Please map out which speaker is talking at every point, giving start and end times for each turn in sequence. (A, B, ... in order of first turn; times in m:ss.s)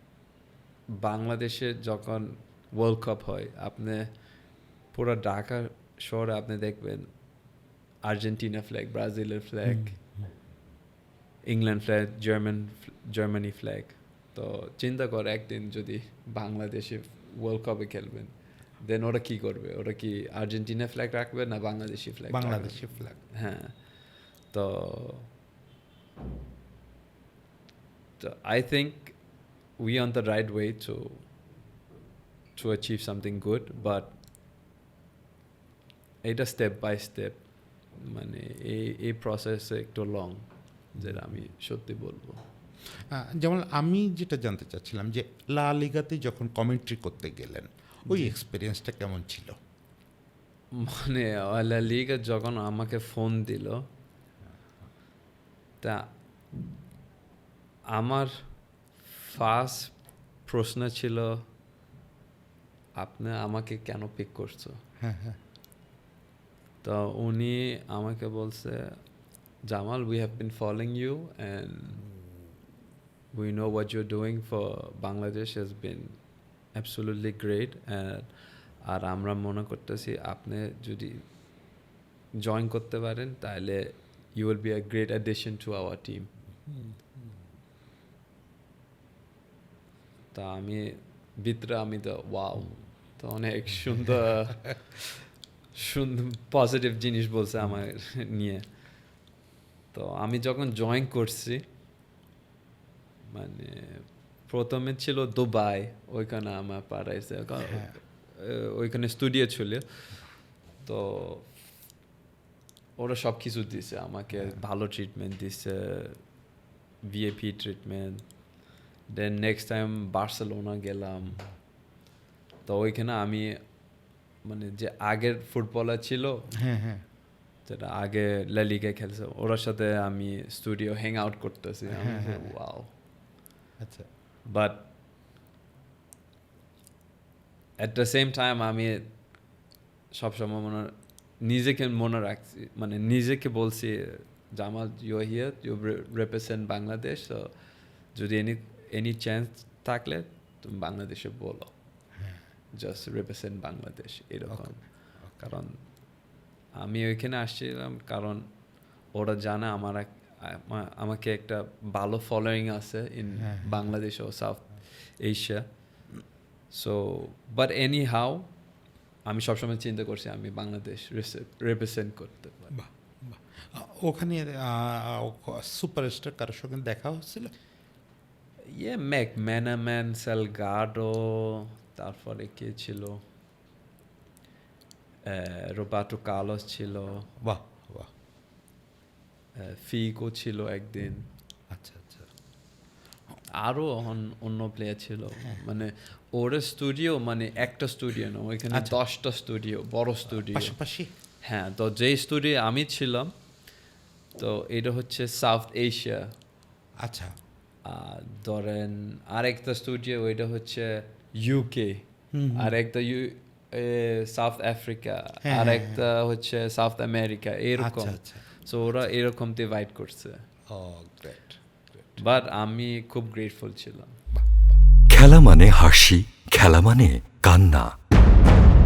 0:00.9-0:04.1 A
0:04.9-0:07.1 A
0:08.0-0:10.0 A
0:09.7-0:10.0 B
0:11.4-0:23.8 A
0:22.3-0:23.1 B
0:24.5-0:25.3 A
0:28.2-0:29.2 A
0:29.8-0:31.3 A
0:32.5-0:34.1 A
0:36.2-0:37.4 A
0:37.9-0:42.4 A
0:42.9-0:49.6 B
0:50.7-0:53.8 A
0:55.8-0:56.1 A
0:57.9-0:58.4 A
0:59.1-0:59.9 A
1:00.4-1:01.4 A
1:03.0-1:04.8 A
1:05.0-1:05.4 B
1:06.8-1:09.0 A
1:09.6-1:12.1 A
1:13.3-1:16.2 A
1:16.7-1:18.3 A
1:18.8-1:21.2 A
1:22.4-1:26.3 A
1:26.7-1:26.9 B
1:30.3-1:35.1 A
1:35.7-1:38.6 A
1:39.9-1:41.6 A
1:43.3-1:49.8 A
1:47.6-1:47.9 B
1:50.8-1:51.5 A
1:53.0-1:56.2 A
1:57.0-1:58.2 A
1:59.1-2:01.5 A
2:02.6-2:03.6 A
2:04.4-2:06.5 A
2:06.6-2:07.0 B
2:07.6-2:12.9 A
2:11.9-2:12.5 B
2:13.8-2:14.1 B
2:14.4-2:14.9 A
2:17.8-2:19.1 A
2:20.1-2:27.5 A
2:28.1-2:31.7 A
2:32.7-2:34.8 A
2:34.5-2:34.8 B
2:35.3-2:35.8 A
2:36.7-2:38.5 A
2:39.1-2:45.6 A
2:43.4-2:43.8 B
2:46.7-2:48.5 A
2:49.2-2:52.8 A
2:52.7-2:57.5 B
2:58.6-3:03.2 A
3:05.2-3:07.3 A
3:07.4-3:08.1 B
3:09.5-3:11.3 A
3:11.7-3:12.3 B
3:13.5-3:20.7 A
3:18.7-3:19.0 B
3:20.4-3:21.1 B
3:21.4-3:23.3 A
3:24.4-3:26.3 A
3:27.0-3:27.3 B
3:27.8-3:40.4 A
3:32.3-3:32.7 B
3:35.4-3:36.0 B
3:37.8-3:39.0 B
3:40.7-3:42.2 B
3:42.2-3:44.2 A
3:44.4-3:44.6 B
3:45.1-3:47.9 C